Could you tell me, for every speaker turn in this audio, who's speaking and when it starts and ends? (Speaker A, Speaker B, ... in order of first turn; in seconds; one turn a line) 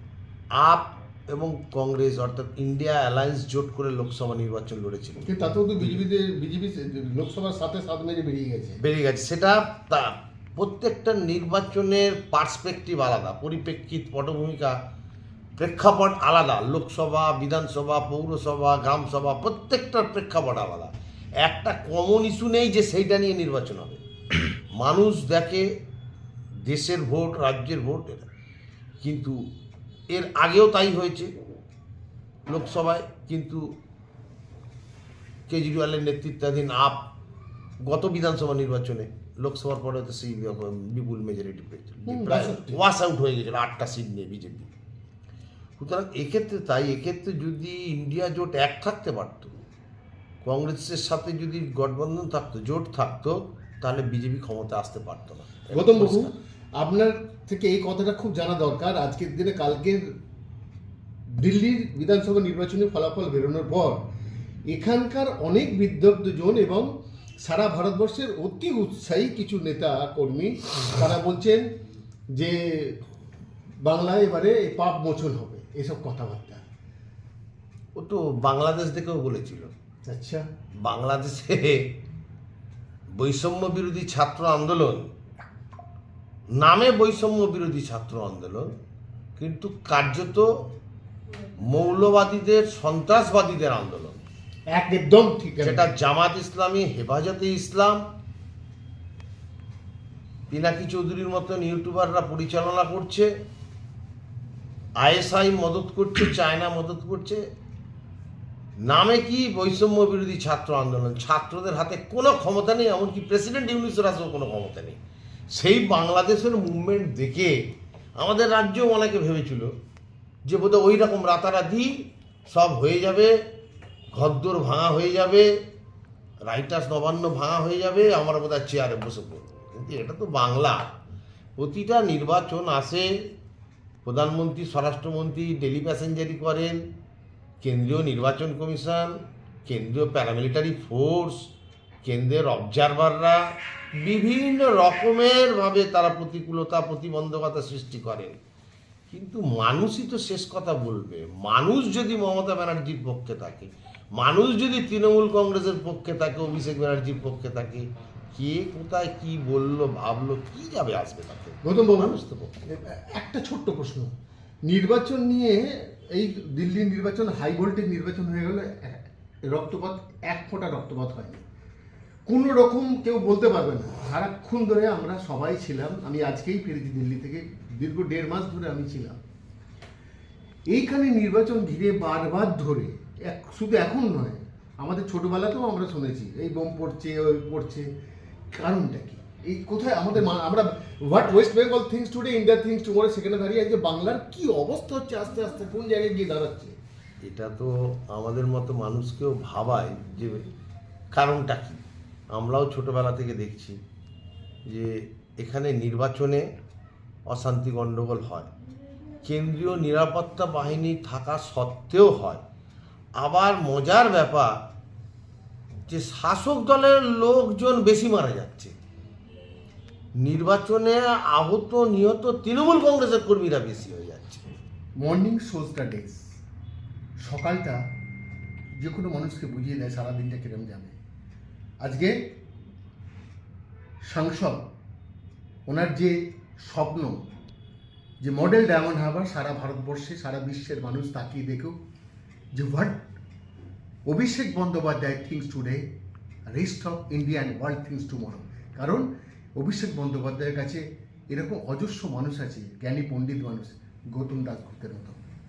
Speaker A: 0.6-5.4
Speaker B: 5.2-8.8
Speaker A: 8.8-14.8
Speaker A: 15.6-24.0
Speaker A: 24.7-25.7
Speaker A: 26.7-28.3
Speaker A: 29.0-29.4
Speaker A: 30.1-31.3
Speaker A: 32.5-33.8
Speaker A: 35.5-37.1
Speaker A: 37.9-44.7
Speaker B: 42.1-42.8
Speaker A: 45.8-49.5
Speaker A: 50.4-56.4
Speaker B: 55.7-60.1
Speaker B: 61.4-64.0
Speaker B: 64.7-66.9
Speaker B: 67.4-71.7
Speaker B: 72.4-73.0
Speaker B: 73.8-76.6
Speaker A: 78.0-79.7
Speaker B: 80.1-80.5
Speaker A: 80.8-81.9
Speaker A: 83.2-85.1
Speaker A: 86.5-88.7
Speaker A: 89.4-90.7
Speaker A: 91.7-94.2
Speaker B: 94.7-95.9
Speaker A: 95.6-98.0
Speaker A: 100.5-103.3
Speaker A: 105.0-107.4
Speaker A: 108.8-115.0
Speaker A: 115.5-117.6
Speaker A: 118.2-119.8
Speaker A: 120.5-121.9
Speaker A: 122.5-123.3
Speaker A: 124.1-125.5
Speaker A: 126.5-130.9
Speaker A: 131.6-133.3
Speaker A: 134.0-136.8
Speaker A: 137.6-141.4
Speaker A: 142.0-143.4
Speaker A: 144.0-148.4
Speaker A: 149.1-162.6
Speaker B: 161.6-164.1
Speaker B: 164.7-171.4
Speaker B: 172.3-179.2
Speaker B: 180.7-187.9
Speaker B: 188.6-196.8
Speaker A: 197.2-200.5
Speaker A: 201.1-203.8
Speaker A: 204.7-206.5
Speaker A: 207.3-208.5
Speaker A: 209.2-212.4
Speaker A: 213.2-214.6
Speaker A: 215.9-218.8
Speaker A: 220.2-224.5
Speaker B: 225.0-226.2
Speaker B: 227.2-227.8
Speaker B: 228.8-231.0
Speaker B: 231.8-232.2
Speaker B: 234.1-234.7
Speaker B: 235.7-237.2
Speaker B: 238.2-241.7
Speaker B: 242.6-243.0
Speaker B: 244.1-245.8
Speaker B: 246.5-249.1
Speaker B: 249.6-255.2